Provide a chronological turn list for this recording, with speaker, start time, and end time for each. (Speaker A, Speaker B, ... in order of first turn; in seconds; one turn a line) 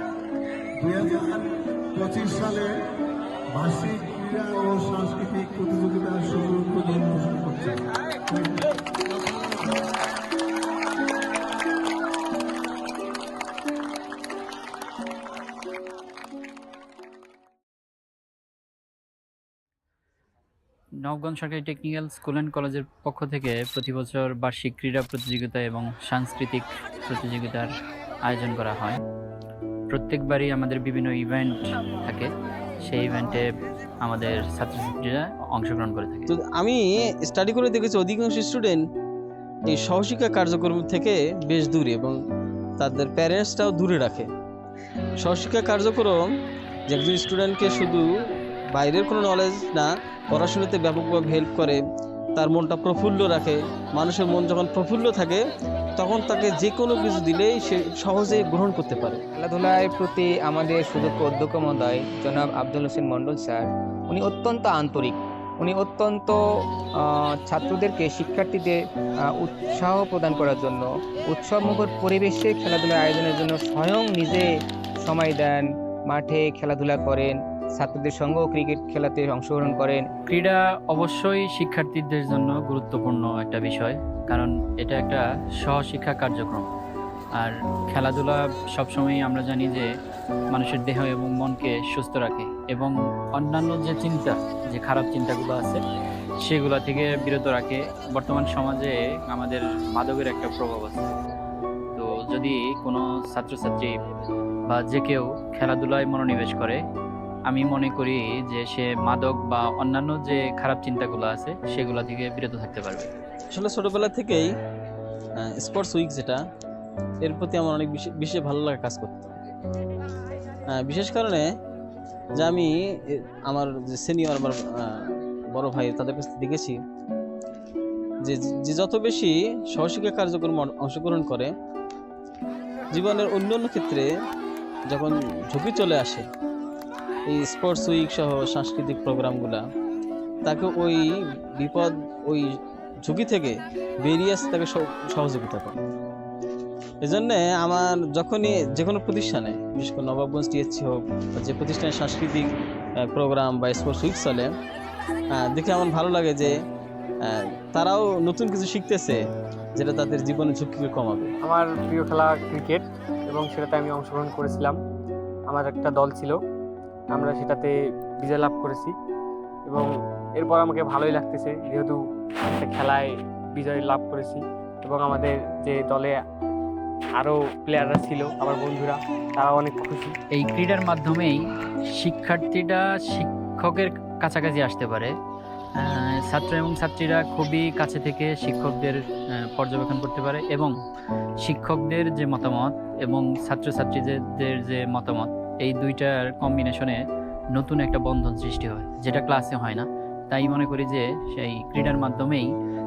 Speaker A: 0.8-2.8
Speaker A: 3.5-8.7
Speaker B: 21.0-27.7
Speaker B: 28.2-29.0
Speaker B: 29.9-32.3
Speaker B: 32.8-33.5
Speaker B: 34.0-36.3
Speaker C: 36.3-38.8
Speaker C: 39.7-42.1
Speaker C: 42.8-44.3
Speaker C: 45.2-46.3
Speaker C: 46.9-48.1
Speaker C: 48.7-51.8
Speaker C: 52.4-55.4
Speaker C: 56.0-59.2
Speaker D: 59.4-66.4
Speaker D: 67.0-68.8
Speaker D: 69.3-74.5
Speaker D: 75.0-80.1
Speaker B: 80.3-86.7
Speaker B: 87.4-89.9
Speaker B: 90.5-95.8
Speaker B: 96.4-101.1
Speaker B: 101.9-104.0
Speaker B: 104.7-106.8
Speaker B: 107.5-113.1
Speaker C: 113.5-114.5
Speaker C: 115.4-116.4
Speaker C: 117.2-119.2
Speaker C: 120.7-121.5
Speaker C: 122.4-126.8
Speaker C: 128.2-131.5
Speaker C: 132.9-134.1
Speaker C: 134.9-136.3
Speaker C: 137.3-139.7
Speaker C: 140.4-145.8
Speaker C: 147.0-154.5
Speaker C: 155.3-156.5
Speaker C: 157.2-159.2
Speaker C: 159.8-161.3
Speaker E: 161.4-164.8
Speaker E: 165.5-166.4
Speaker E: 167.1-168.9
Speaker E: 169.7-176.2
Speaker E: 177.2-180.1
Speaker B: 180.3-181.4
Speaker B: 182.0-185.1
Speaker B: 185.8-190.8
Speaker B: 191.4-197.0
Speaker B: 197.5-202.5